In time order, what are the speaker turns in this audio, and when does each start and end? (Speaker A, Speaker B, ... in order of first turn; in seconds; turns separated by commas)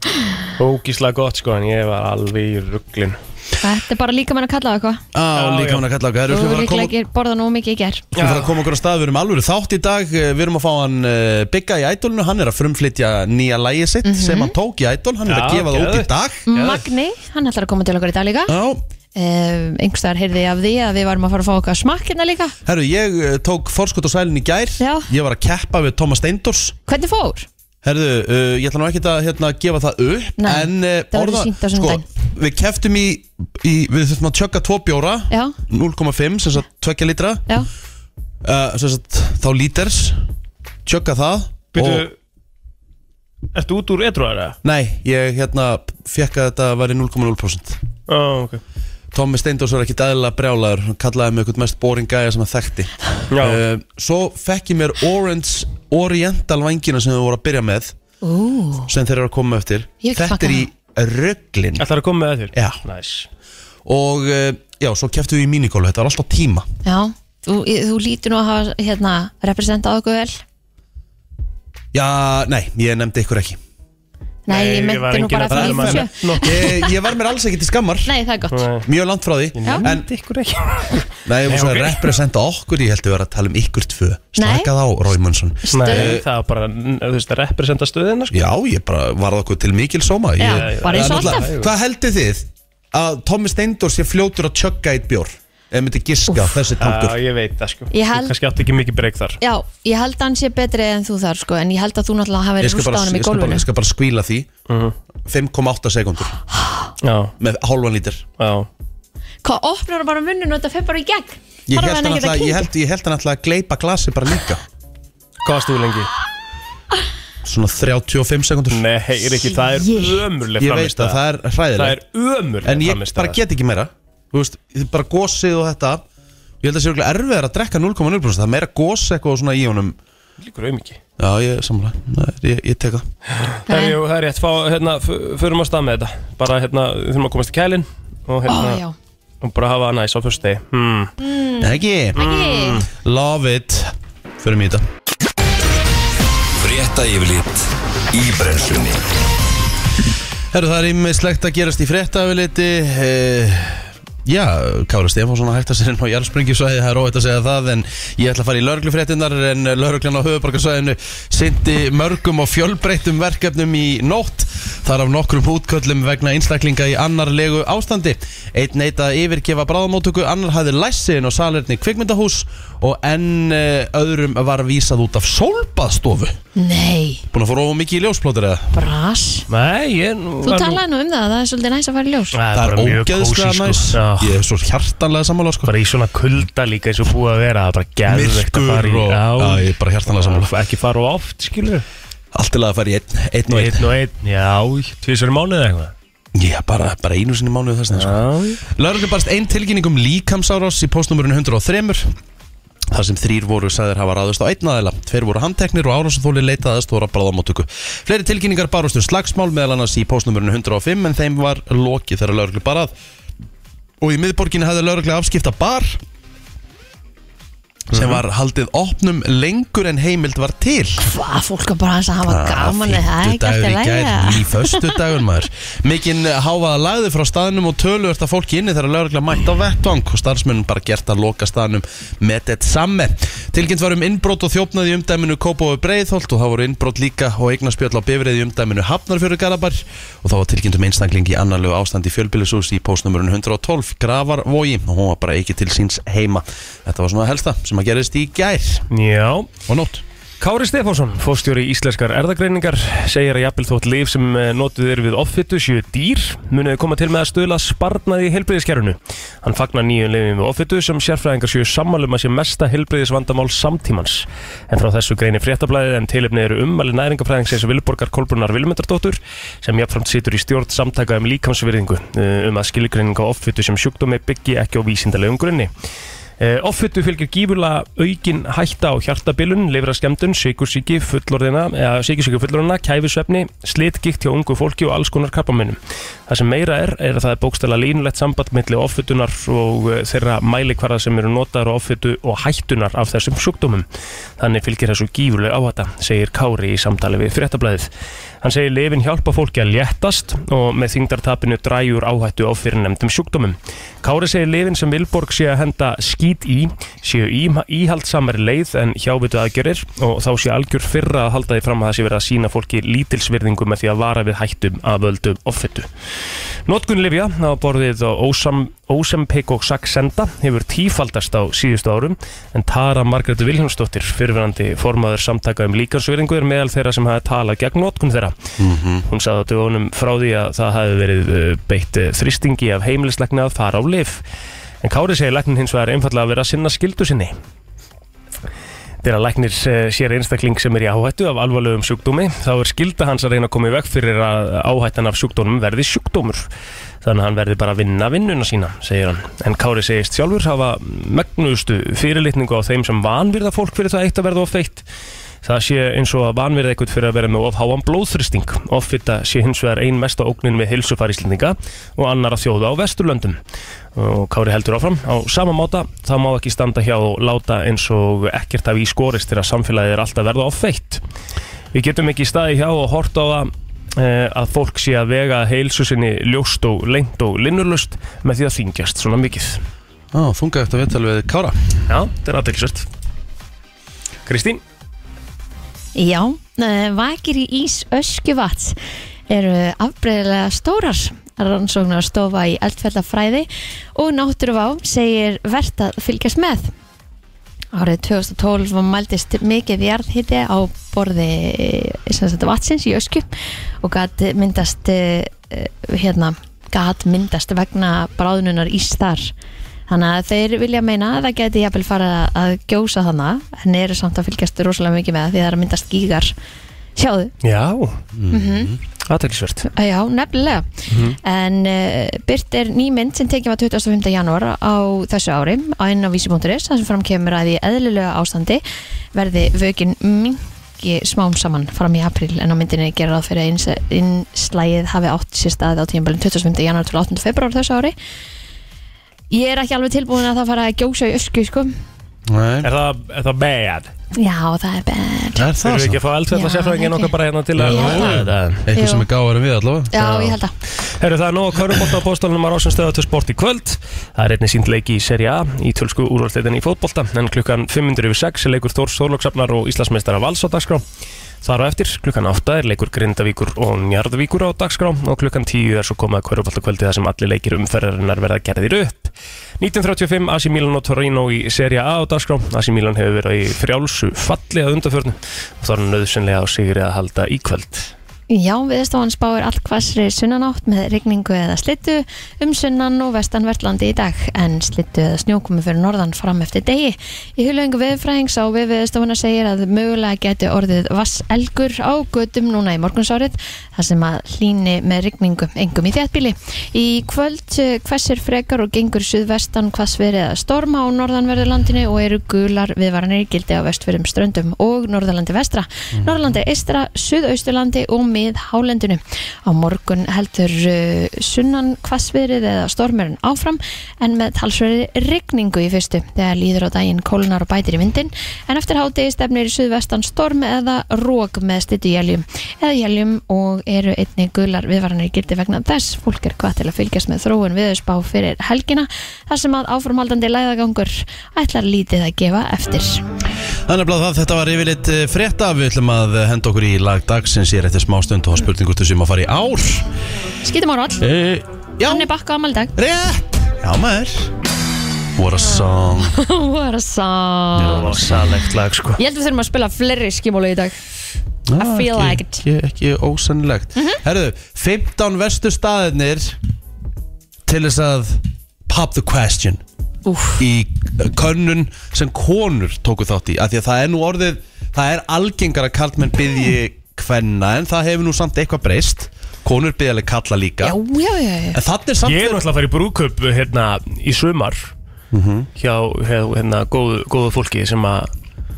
Speaker A: 0.6-3.2, Speaker B: 3.6-5.0, Speaker C: 5.1-6.9, Speaker A: 5.3-5.8, Speaker B: 6.3-8.1, Speaker A: 8.1-8.5, Speaker C: 8.2-16.4, Speaker B: 14.0-14.5, Speaker A: 15.2-16.8, Speaker B: 16.5-18.5, Speaker C: 18.5-18.8, Speaker B: 19.1-22.5, Speaker C: 22.6-26.8, Speaker B: 24.8-25.1, Speaker B: 26.9-27.5, Speaker C: 27.8-37.4, Speaker B: 30.4-32.0, Speaker B: 35.3-35.5, Speaker C: 38.4-40.2, Speaker C: 40.8-42.1, Speaker A: 41.7-42.1, Speaker A: 43.5-44.6, Speaker C: 44.6-47.8, Speaker A: 48.1-48.6, Speaker C: 49.1-57.9, Speaker A: 53.3-53.6, Speaker B: 58.2-58.9, Speaker C: 58.9-61.8, Speaker B: 60.0-60.7, Speaker A: 61.8-63.3, Speaker C: 62.5-62.8, Speaker C: 63.9-66.7, Speaker B: 66.8-70.4, Speaker C: 71.9-73.6, Speaker B: 74.5-76.9, Speaker A: 74.5-76.7, Speaker C: 75.5-78.1, Speaker B: 78.0-78.7, Speaker A: 78.5-78.8, Speaker C: 78.8-80.1, Speaker A: 79.5-82.1, Speaker C: 81.2-86.2, Speaker B: 84.4-84.7, Speaker B: 85.7-86.2, Speaker A: 85.7-88.4, Speaker C: 88.3-97.2, Speaker B: 90.4-91.5, Speaker A: 90.4-91.7, Speaker A: 96.8-99.4, Speaker B: 97.9-98.3, Speaker B: 99.4-103.7, Speaker C: 102.6-104.5, Speaker A: 104.7-105.0, Speaker C: 105.2-106.4, Speaker A: 107.0-107.3, Speaker C: 107.4-108.2, Speaker A: 108.4-108.7, Speaker B: 109.4-112.7, Speaker C: 111.7-114.6, Speaker A: 115.4-116.1, Speaker C: 117.4-118.8, Speaker A: 118.7-121.2, Speaker B: 119.7-120.2, Speaker C: 120.6-122.0, Speaker A: 121.8-123.4, Speaker C: 122.6-126.0, Speaker C: 126.6-130.0, Speaker A: 130.4-131.0, Speaker C: 131.2-133.0, Speaker A: 133.3-138.8, Speaker B: 133.7-134.0, Speaker B: 138.5-138.9, Speaker A: 139.4-141.1, Speaker B: 141.2-142.8, Speaker C: 141.6-142.3, Speaker A: 142.2-142.8, Speaker C: 142.8-144.8, Speaker D: 146.6-149.0, Speaker C: 150.5-176.3, Speaker B: 176.6-177.2, Speaker C: 177.3-178.8, Speaker B: 178.7-179.5, Speaker A: 179.5-180.8, Speaker B: 180.4-182.4, Speaker A: 182.3-184.4, Speaker C: 182.5-185.7, Speaker A: 185.7-191.8, Speaker C: 188.0-190.5, Speaker C: 192.3-193.9, Speaker A: 193.5-195.9, Speaker C: 196.3-202.1, Speaker A: 197.9-198.6, Speaker C: 202.9-212.9, Speaker C: 214.0-216.0, Speaker C: 217.9-221.0, Speaker A: 217.9-218.2, Speaker B: 221.0-225.0, Speaker C: 222.2-248.8, Speaker A: 248.9-249.5, Speaker C: 249.7-250.0, Speaker A: 250.4-275.7, Speaker A: 276.4-293.8, Speaker A: 294.4-297.9, Speaker A: 298.4-315.9, Speaker A: 316.6-328.3, Speaker C: 328.6-329.0, Speaker A: 329.1-334.2, Speaker A: 334.8-337.3, Speaker A: 339.0-346.5, Speaker A: 347.0-354.8, Speaker A: 355.4-363.4, Speaker A: 364.0-371.0, Speaker A: 371.7-379.6, Speaker C: 380.1-381.7, Speaker A: 381.9-382.9, Speaker A: 384.2-384.6, Speaker B: 385.9-388.8, Speaker B: 389.3-396.7, Speaker B: 397.7-403.3, Speaker B: 403.8-409.3, Speaker B: 409.9-416.3, Speaker B: 417.0-417.3, Speaker A: 417.4-418.0, Speaker C: 418.1-418.8, Speaker B: 418.3-418.7, Speaker A: 419.1-419.6, Speaker B: 419.7-428.6, Speaker A: 420.9-421.2, Speaker B: 429.1-437.9, Speaker B: 439.3-441.7, Speaker C: 442.3-442.7, Speaker A: 442.6-443.9, Speaker B: 444.1-445.5, Speaker C: 445.4-446.0, Speaker A: 445.6-448.6, Speaker B: 446.3-447.1, Speaker C: 447.6-449.9, Speaker B: 447.7-448.2, Speaker B: 448.7-449.1, Speaker B: 449.9-450.5, Speaker A: 450.0-460.8, Speaker A: 461.4-477.9, Speaker B: 478.3-533.0, Speaker C: 533.7-539.9, Speaker B: 540.4-541.0, Speaker C: 541.0-542.1, Speaker B: 541.9-542.7, Speaker C: 542.8-544.3, Speaker C: 545.1-546.1, Speaker B: 545.5-548.0, Speaker C: 547.5-548.2, Speaker A: 547.6-549.0, Speaker B: 549.0-550.8, Speaker C: 551.5-556.4, Speaker B: 551.6-552.4, Speaker C: 557.5-559.6, Speaker B: 560.0-560.4, Speaker C: 560.4-570.8, Speaker B: 570.6-571.6, Speaker C: 571.5-572.4, Speaker A: 572.0-574.7, Speaker C: 575.1-575.5, Speaker A: 575.6-578.1